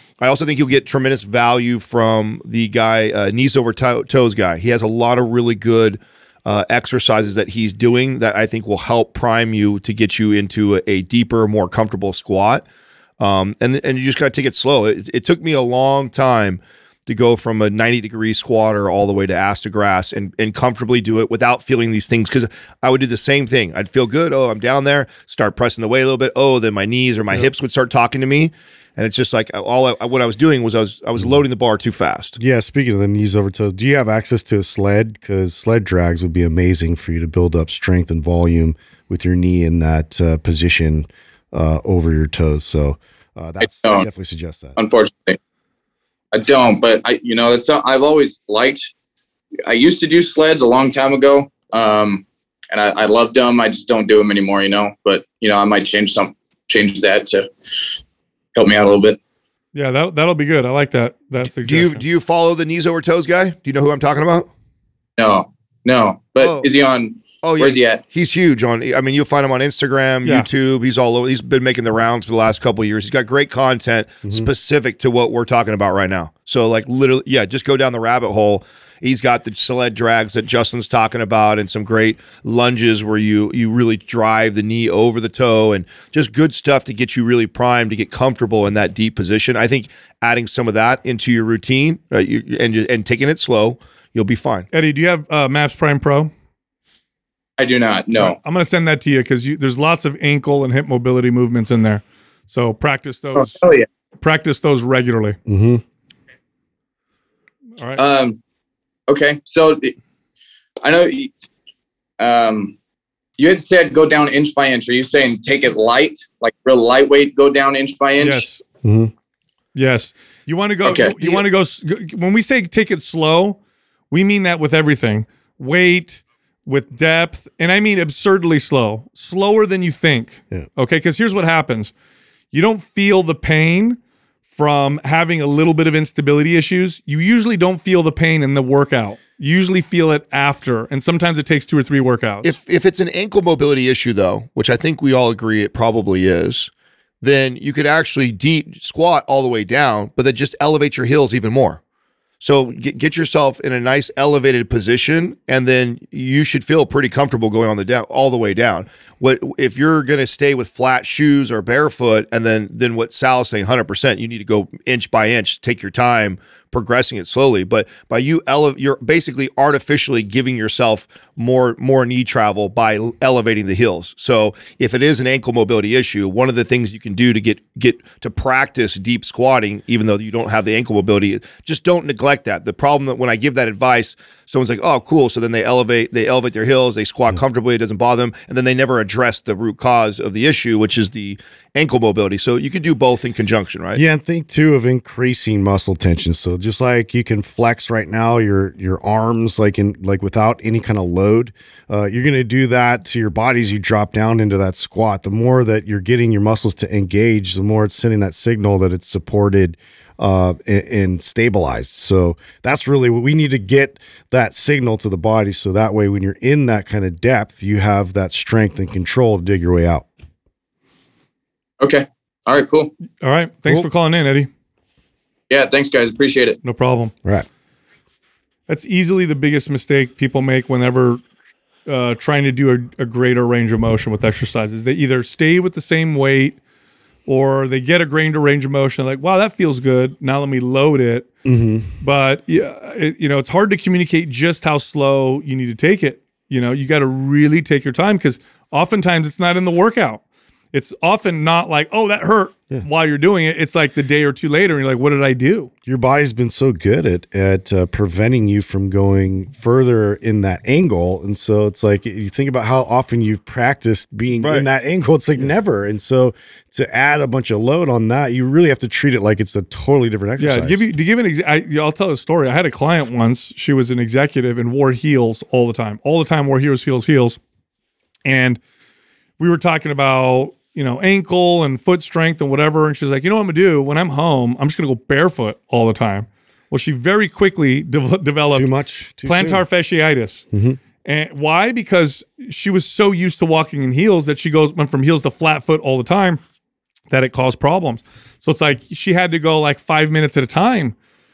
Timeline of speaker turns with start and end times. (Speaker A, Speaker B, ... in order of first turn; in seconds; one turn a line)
Speaker A: 0.2-12.7
Speaker A: 13.2-32.4
Speaker B: 31.2-31.4
Speaker B: 32.4-44.8
Speaker C: 43.6-44.1
Speaker C: 44.8-45.4
Speaker C: 46.3-48.9
Speaker C: 49.7-57.5
Speaker C: 58.5-59.2
Speaker D: 59.7-62.0
Speaker A: 61.6-64.5
Speaker C: 65.2-68.0
Speaker A: 66.4-66.7
Speaker A: 67.4-94.7
Speaker D: 94.7-96.3
Speaker C: 97.6-98.4
Speaker D: 98.2-103.7
Speaker C: 103.3-103.9
Speaker D: 104.2-105.4
Speaker B: 105.5-105.8
Speaker D: 107.8-108.0
Speaker C: 108.0-108.4
Speaker C: 109.1-110.0
Speaker C: 110.8-111.5
Speaker C: 112.2-112.8
Speaker C: 113.4-118.5
Speaker D: 118.2-118.6
Speaker B: 118.8-119.1
Speaker D: 119.7-123.6
Speaker C: 120.8-121.3
Speaker D: 124.1-131.9
Speaker D: 132.5-134.0
Speaker D: 134.5-142.6
Speaker A: 142.4-146.7
Speaker A: 147.2-151.8
Speaker A: 152.4-194.0
Speaker B: 193.9-220.1
Speaker C: 221.8-222.9
Speaker D: 223.2-224.5
Speaker C: 225.5-226.6
Speaker D: 226.6-227.1
Speaker D: 228.7-231.2
Speaker D: 231.9-236.6
Speaker D: 237.3-241.3
Speaker B: 241.4-241.9
Speaker D: 242.0-250.2
Speaker D: 250.7-255.7
Speaker B: 255.9-270.9
Speaker A: 264.4-264.7
Speaker D: 270.4-277.4
Speaker D: 278.2-278.6
Speaker D: 279.4-290.5
Speaker B: 288.5-289.6
Speaker B: 290.5-290.8
Speaker D: 291.0-296.4
Speaker D: 297.1-300.9